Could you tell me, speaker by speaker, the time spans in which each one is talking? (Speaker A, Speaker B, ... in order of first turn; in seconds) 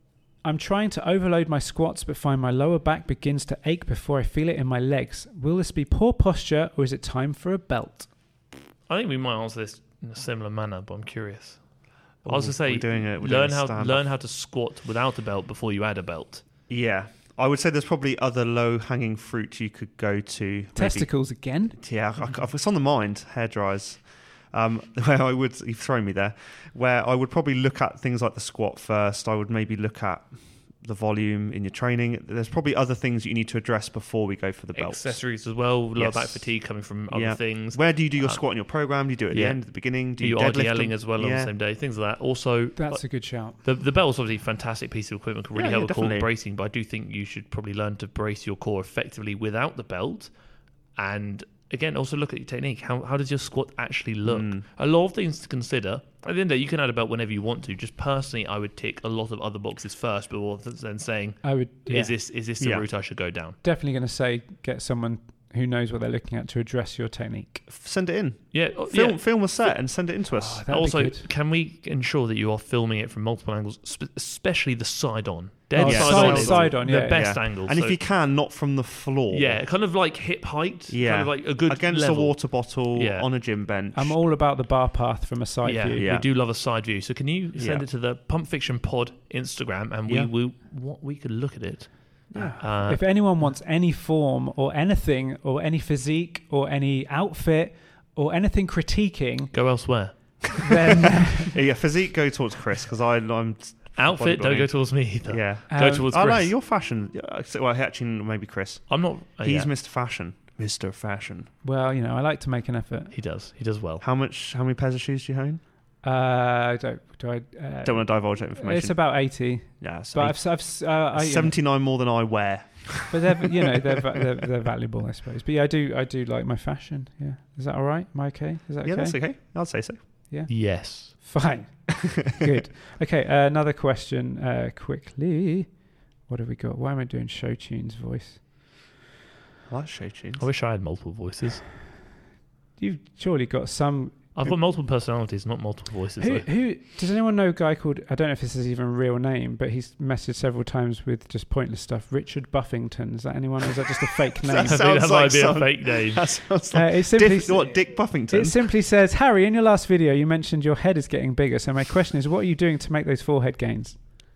Speaker A: 0.4-8.1, 20.8-21.8, 42.8-43.6, 61.4-62.1, 63.6-67.7, 70.3-71.3, 75.8-77.2, 83.9-86.1, 92.3-99.5, 100.5-101.5, 105.7-106.1, 111.6-113.1, 116.0-121.5, 123.1-129.2, 130.3-135.7, 136.3-138.4, 142.8-144.3, 146.2-154.8, 156.7-164.0
Speaker B: 8.9-11.6, 12.2-16.4, 34.8-38.4, 39.3-39.6, 40.2-43.0, 43.5-50.3, 51.0-63.6, 68.5-69.2, 70.7-78.0, 79.3-82.4, 82.9-83.3, 85.6-93.0, 99.5-100.8, 104.0-106.5, 108.9-109.7, 113.1-114.0, 130.5-131.2, 140.4-141.7, 144.4-146.5, 154.6-156.3
Speaker C: 12.2-14.1, 16.7-21.1, 21.7-35.2, 36.0-36.5, 37.1-41.5, 45.5-46.3, 54.2-54.6, 62.6-62.9, 67.7-70.7, 75.8-79.6, 80.9-84.2, 86.0-86.3, 87.5-87.9, 92.3-92.6, 101.5-104.7, 105.3-108.9, 109.4-111.5, 114.0-115.6, 117.8-119.0, 119.8-123.5, 128.8-130.0, 139.7-140.5, 154.4-158.6